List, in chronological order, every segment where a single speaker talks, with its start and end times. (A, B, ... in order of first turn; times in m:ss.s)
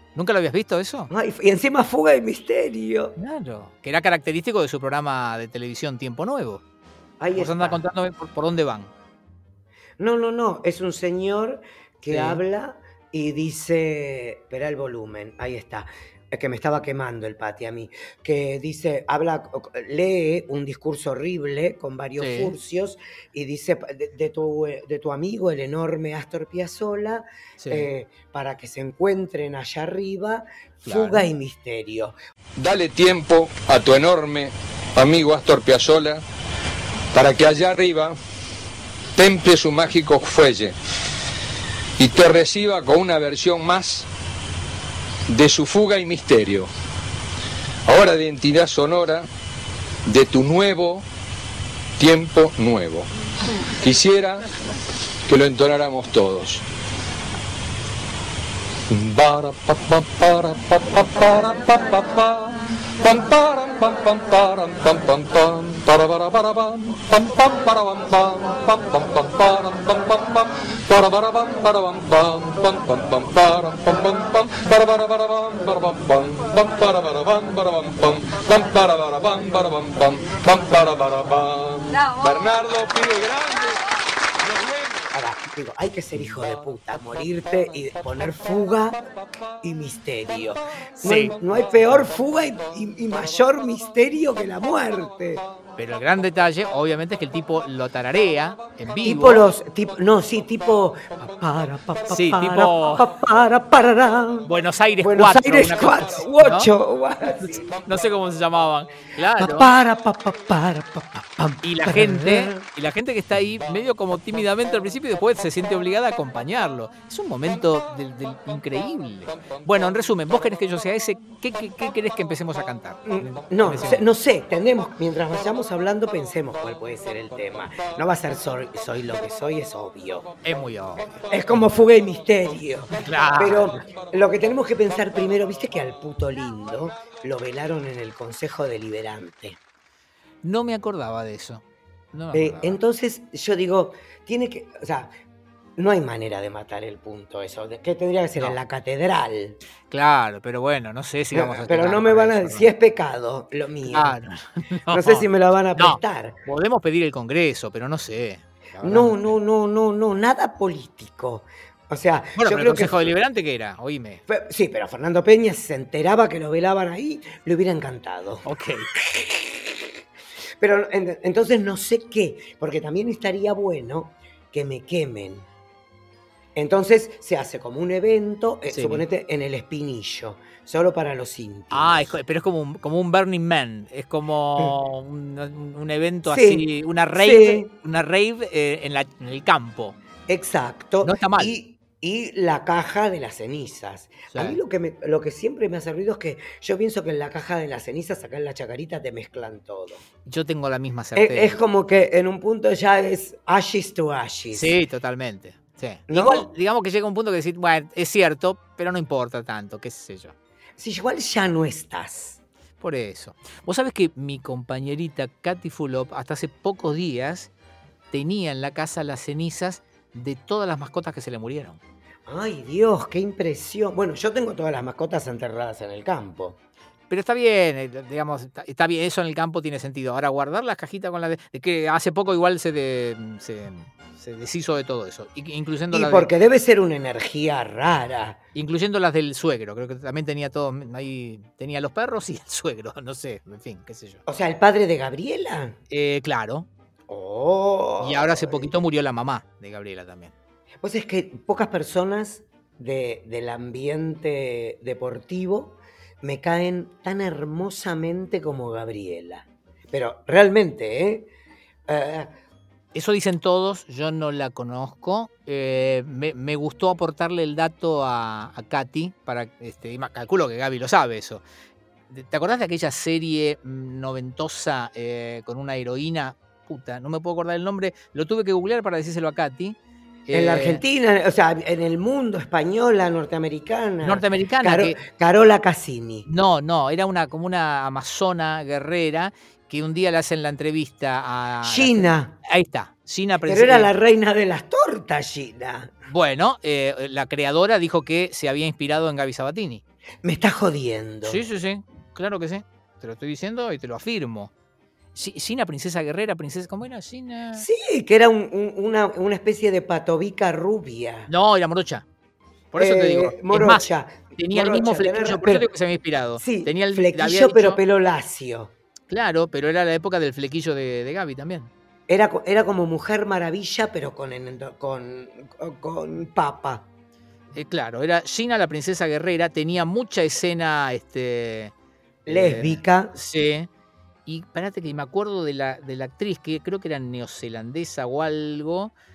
0:00.1-0:01.1 A
0:01.1-0:03.2 B
0:03.2-0:06.6 A
0:07.2-0:07.8 B
0:07.3-0:08.9 A
0:10.0-0:32.2 B
0:12.1-0:12.4 A
0:22.2-0:22.5 A
0:27.6-0:27.9 A
0:30.8-0:31.2 A
0:32.6-0:36.2 C
0:37.1-0:38.2 C
0:39.2-0:40.7 C
0:42.0-0:44.1 C
0:45.3-0:46.7 C
0:47.8-0:49.3 C
0:50.0-0:51.0 C
0:52.0-0:53.1 C
0:53.8-0:54.4 C
0:55.3-0:56.6 C
0:58.9-1:23.8 C
1:24.5-1:24.7 C
1:25.1-1:29.0 B
1:29.6-1:35.4 B
1:31.0-1:32.0 A
1:35.8-1:39.4 A
1:39.0-1:44.5 B
1:42.1-1:43.0 A
1:44.4-1:46.7 A
1:45.0-1:47.7 B
1:47.4-1:49.7 A
1:49.4-1:52.6 B
1:51.6-2:04.0 A
2:03.0-2:10.3 B
2:10.4-2:11.7 A
2:11.3-2:19.6 B
2:13.0-2:13.8 A
2:20.4-2:22.8 A
2:22.3-2:25.1 B
2:25.8-2:29.6 B
2:29.9-2:32.7 A
2:31.3-2:34.2 B
2:33.9-2:39.3 A
2:34.9-2:36.4 B
2:38.8-2:43.1 B
2:42.4-2:44.2 A
2:44.3-2:49.8 B
2:48.4-2:48.9 A
2:50.6-2:55.5 B
2:56.5-3:02.1 B
2:58.7-2:59.0 A
3:01.7-3:10.0 A
3:06.2-3:07.7 B
3:10.3-3:20.0 B
3:11.0-3:11.5 A
3:14.3-3:14.6 A
3:20.2-3:21.6 A
3:21.1-3:24.8 B
3:24.5-3:30.3 A
3:26.1-3:26.5 B
3:30.8-3:32.4 B
3:32.8-3:37.5 A
3:38.1-3:41.8 A
3:42.3-3:46.6 B
3:47.1-3:56.3 A
3:55.9-3:58.4 B
3:58.5-4:04.2 A
4:04.2-4:05.8 B
4:05.9-4:06.7 A
4:07.1-4:08.7 B
4:08.0-4:10.3 A
4:10.8-4:21.3 B
4:21.9-4:22.3 B
4:22.9-4:31.4 A
4:32.1-4:40.8 A
4:40.3-4:46.3 B
4:44.0-4:45.0 A
4:46.2-4:53.9 A
4:51.6-4:52.4 B
4:53.4-4:55.9 B
4:56.1-4:59.8 A
5:00.2-5:01.4 B
5:01.2-5:04.5 A
5:05.1-5:07.6 A
5:07.5-5:11.3 B
5:11.3-5:12.0 A
5:12.7-5:17.8 A
5:12.8-5:15.7 B
5:16.4-5:18.7 B
5:19.1-5:21.7 A
5:22.1-5:26.9 B
5:27.5-5:31.7 A
5:32.2-5:33.1 B
5:32.3-5:33.7 A
5:34.2-5:38.9 A